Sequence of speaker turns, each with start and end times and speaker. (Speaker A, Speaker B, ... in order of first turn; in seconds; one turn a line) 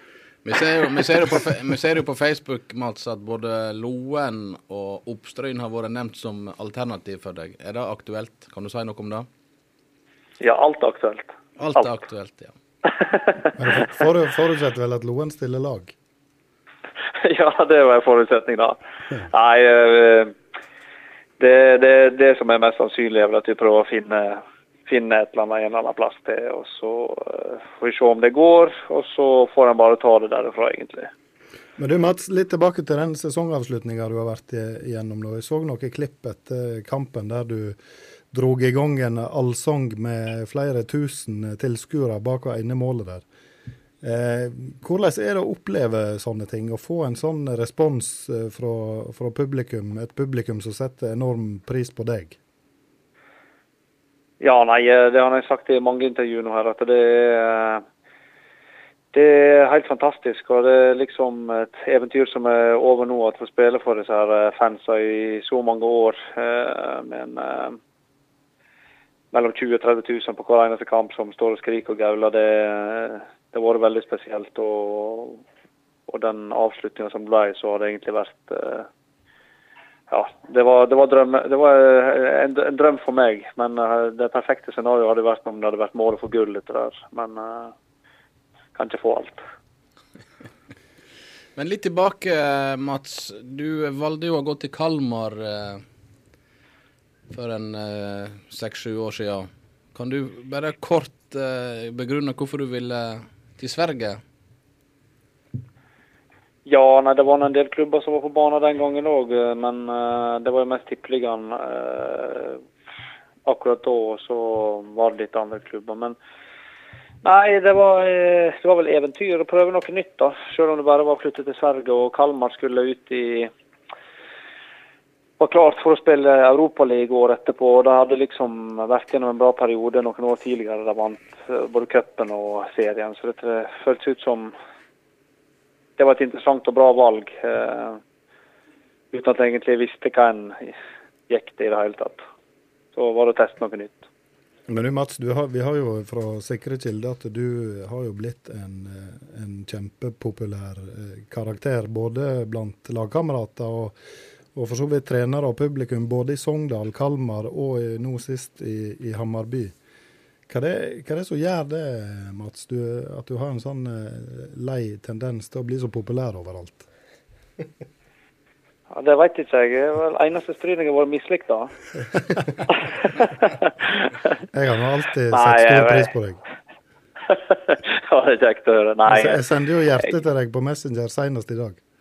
Speaker A: 0.5-9.3
Speaker B: 10.4-11.8
Speaker A: 11.6-12.5
Speaker B: 12.9-13.5
Speaker C: 13.6-15.9
Speaker B: 17.2-20.3
Speaker B: 21.4-31.1
Speaker C: 31.8-37.8
Speaker C: 38.3-43.2
Speaker C: 44.0-52.4
Speaker B: 54.4-57.8
Speaker B: 59.1-67.8
Speaker B: 69.3-75.4
Speaker B: 76.1-78.9
Speaker B: 80.1-87.7
Speaker B: 88.8-89.4
Speaker A: 91.6-95.8
Speaker A: 97.3-104.2
Speaker B: 106.7-112.6
Speaker B: 113.5-116.2
Speaker B: 117.2-123.5
Speaker B: 125.4-134.5
Speaker B: 136.0-138.0
Speaker B: 139.1-140.7
Speaker B: 141.3-142.2
Speaker B: 142.9-144.1
Speaker C: 144.7-154.0
Speaker C: 154.6-159.7
Speaker C: 160.5-166.9
Speaker B: 168.9-171.7
Speaker B: 173.2-173.9
Speaker C: 174.5-176.4
Speaker B: 175.3-176.1
Speaker B: 177.3-179.4
Speaker C: 179.1-181.8